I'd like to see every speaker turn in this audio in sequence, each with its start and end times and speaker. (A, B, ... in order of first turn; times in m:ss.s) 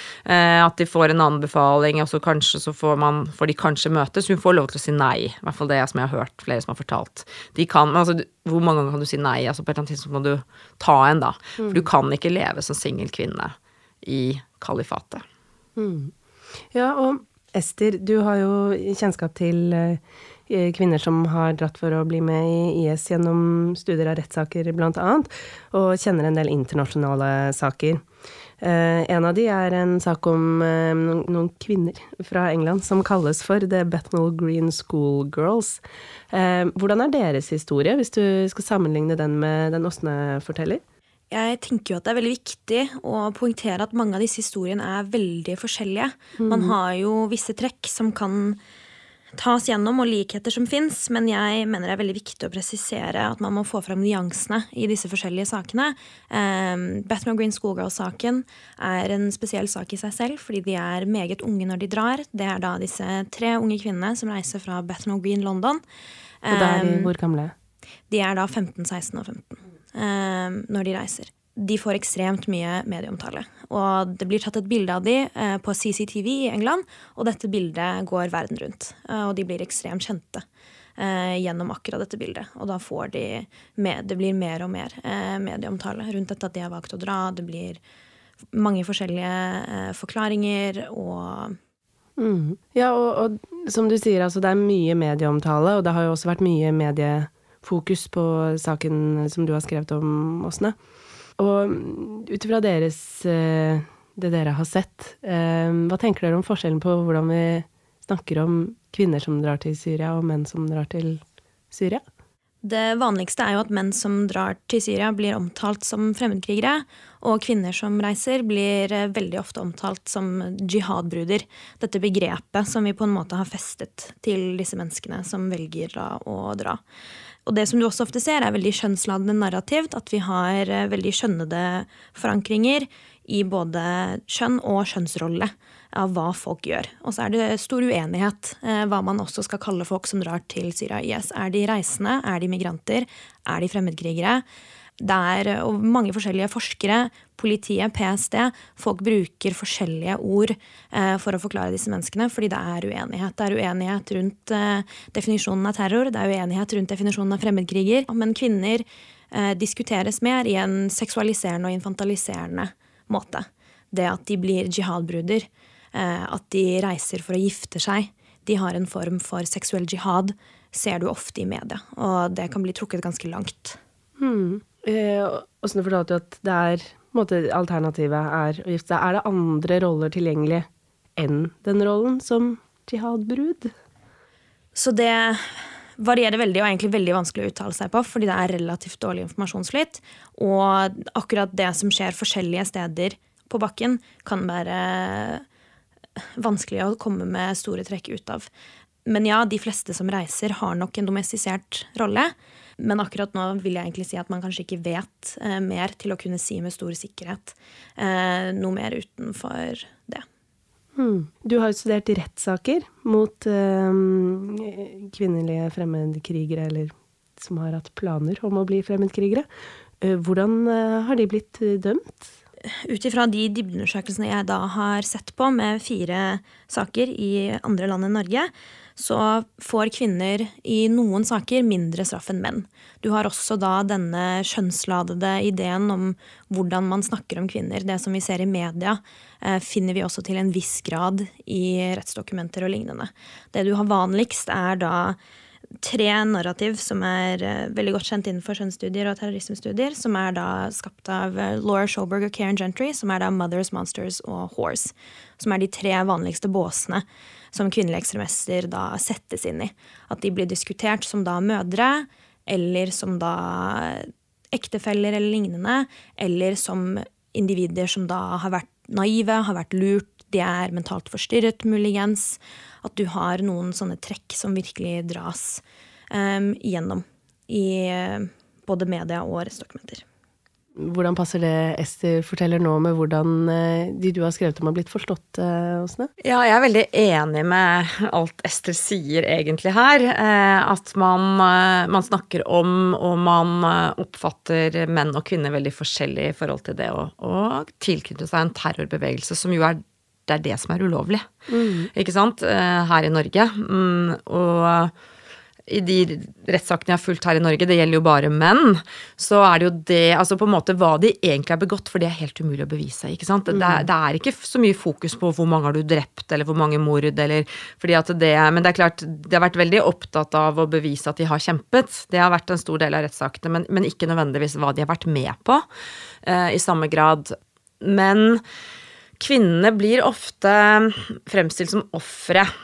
0:00.3-0:13.5 A
0:11.6-0:11.8 B
0:14.0-0:15.2 A
0:15.8-0:16.1 B
0:16.7-0:28.0 B
0:28.6-0:40.8 B
0:41.3-0:48.6 C
0:46.4-0:46.8 B
0:49.3-1:05.8 C
1:06.4-1:07.1 C
1:06.5-1:07.5 B
1:08.1-1:20.4 C
1:21.0-1:27.8 C
1:28.5-1:31.6 C
1:32.2-1:40.7 B
1:41.4-1:52.0 B
1:52.6-2:06.8 C
2:07.4-2:24.4 C
2:25.0-2:53.8 C
2:54.2-3:03.7 B
3:04.7-3:15.4 C
3:16.4-3:18.5 C
3:19.0-3:30.2 C
3:31.0-3:39.5 B
3:40.0-3:42.2 B
3:42.8-4:05.2 C
4:05.8-4:40.0 C
4:40.8-4:46.1 B
4:46.2-4:59.7 A
5:00.3-5:01.2 A
5:01.5-5:01.9 B
5:02.0-5:04.9 A
5:05.7-5:25.6 A
5:13.5-5:13.9 B
5:26.3-5:27.3 A
5:27.8-5:28.4 A
5:29.2-5:30.8 A
5:31.3-5:32.4 A